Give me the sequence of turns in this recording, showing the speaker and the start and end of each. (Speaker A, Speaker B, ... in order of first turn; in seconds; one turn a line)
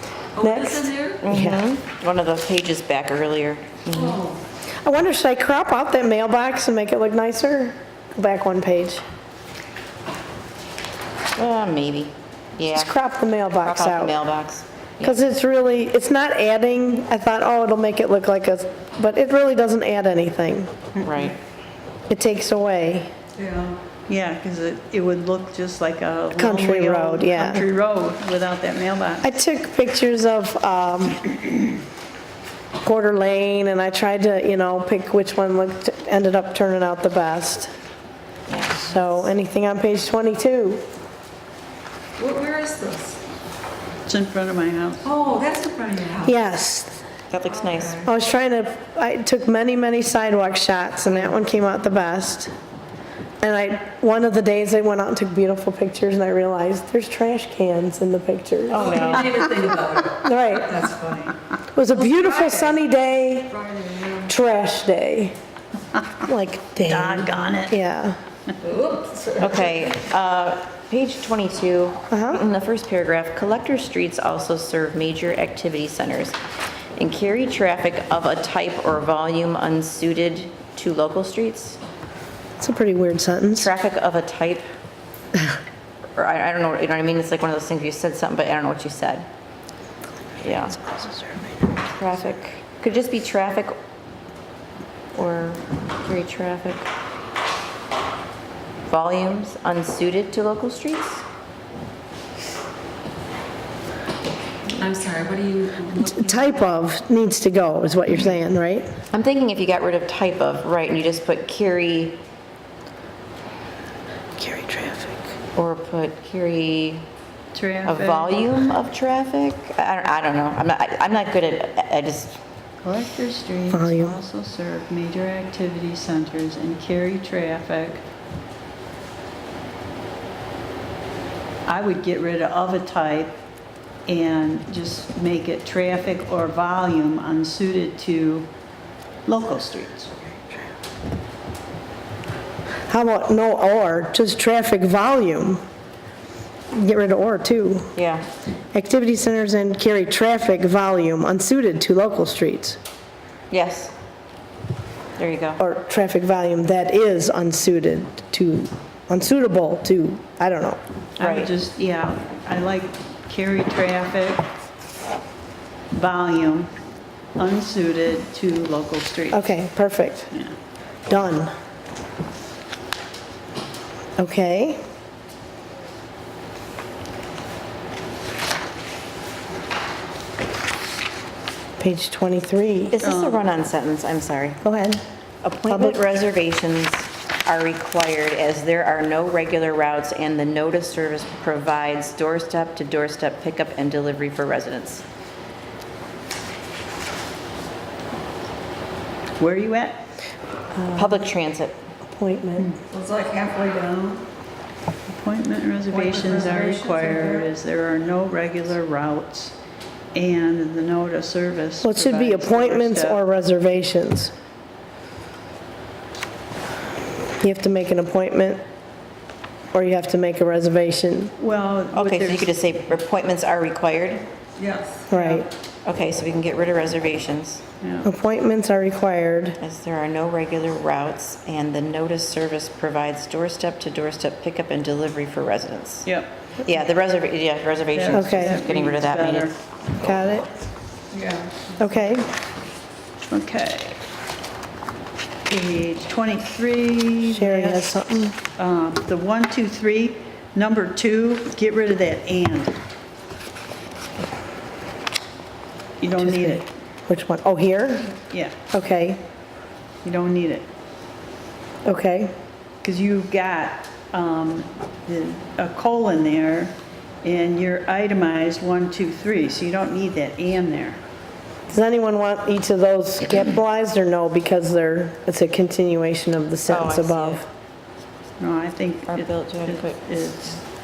Speaker A: 0.3-1.2
Speaker B: 0.4-1.6
Speaker C: 1.2-4.2
Speaker A: 3.9-4.4
Speaker B: 4.8-9.0
Speaker C: 11.3-12.9
Speaker B: 12.7-14.1
Speaker C: 13.6-15.2
Speaker B: 15.0-20.7
Speaker C: 21.0-21.4
Speaker B: 22.1-23.1
Speaker A: 23.4-23.8
Speaker D: 24.1-29.3
Speaker B: 26.3-27.6
Speaker B: 29.2-31.3
Speaker B: 32.8-37.7
Speaker C: 38.5-39.2
Speaker B: 38.8-40.8
Speaker A: 42.2-43.2
Speaker D: 44.0-45.1
Speaker A: 45.0-46.4
Speaker B: 46.2-47.0
Speaker C: 47.3-48.0
Speaker A: 47.5-48.1
Speaker B: 48.0-52.5
Speaker B: 53.4-59.4
Speaker C: 58.7-59.4
Speaker A: 58.7-61.4
Speaker B: 60.2-60.9
Speaker B: 61.7-63.6
Speaker A: 62.0-62.8
Speaker A: 63.6-64.3
Speaker B: 64.2-65.3
Speaker B: 66.2-68.2
Speaker D: 66.8-67.8
Speaker A: 68.6-69.9
Speaker C: 69.4-76.3
Speaker B: 72.1-72.4
Speaker C: 77.0-81.8
Speaker B: 82.6-83.7
Speaker C: 83.6-84.6
Speaker C: 86.2-89.3
Speaker C: 90.4-90.8
Speaker B: 90.5-91.7
Speaker C: 91.9-93.7
Speaker C: 95.1-96.9
Speaker C: 98.9-101.2
Speaker A: 104.7-106.5
Speaker B: 106.0-108.9
Speaker C: 109.1-112.2
Speaker B: 114.4-115.3
Speaker C: 115.5-117.0
Speaker D: 117.5-118.3
Speaker C: 117.8-122.4
Speaker D: 122.8-128.0
Speaker B: 123.7-124.2
Speaker D: 131.7-133.3
Speaker D: 134.1-138.5
Speaker D: 139.2-140.1
Speaker B: 142.9-145.6
Speaker B: 146.7-147.9
Speaker C: 147.9-148.3
Speaker B: 148.7-152.8
Speaker C: 153.5-153.9
Speaker C: 155.2-155.6
Speaker B: 155.6-160.8
Speaker D: 161.2-164.5
Speaker C: 161.2-161.5
Speaker D: 165.9-166.7
Speaker D: 167.4-169.6
Speaker B: 169.3-170.3
Speaker B: 171.1-171.5
Speaker B: 174.2-174.8
Speaker B: 181.8-182.9
Speaker C: 182.9-184.6
Speaker D: 183.0-183.4
Speaker B: 184.6-185.0
Speaker C: 185.4-195.0
Speaker B: 185.7-186.0
Speaker D: 199.4-200.0
Speaker B: 200.7-201.2
Speaker C: 200.9-201.8
Speaker B: 202.1-202.7
Speaker A: 202.9-204.2
Speaker D: 205.1-209.6
Speaker A: 205.9-207.5
Speaker D: 210.1-213.2
Speaker B: 211.8-214.3
Speaker B: 217.4-218.6
Speaker B: 219.7-221.3
Speaker D: 221.4-222.5
Speaker C: 221.9-224.2
Speaker A: 224.6-225.1
Speaker B: 225.1-225.5
Speaker D: 225.1-225.4
Speaker C: 225.8-227.6
Speaker D: 227.8-228.1
Speaker B: 228.0-229.6
Speaker C: 229.6-236.1
Speaker D: 236.0-236.4
Speaker C: 236.6-239.5
Speaker D: 237.9-239.5
Speaker B: 238.1-238.6
Speaker B: 240.0-240.5
Speaker A: 241.1-241.6
Speaker B: 241.8-242.3
Speaker D: 243.3-244.0
Speaker D: 245.5-252.7
Speaker B: 247.3-248.3
Speaker D: 256.0-256.7
Speaker B: 256.2-258.1
Speaker D: 258.2-258.5
Speaker B: 258.7-259.2
Speaker D: 260.0-260.7
Speaker B: 261.8-262.3
Speaker D: 262.8-271.0
Speaker B: 271.7-277.4
Speaker C: 276.7-277.4
Speaker D: 278.4-280.6
Speaker C: 279.1-280.0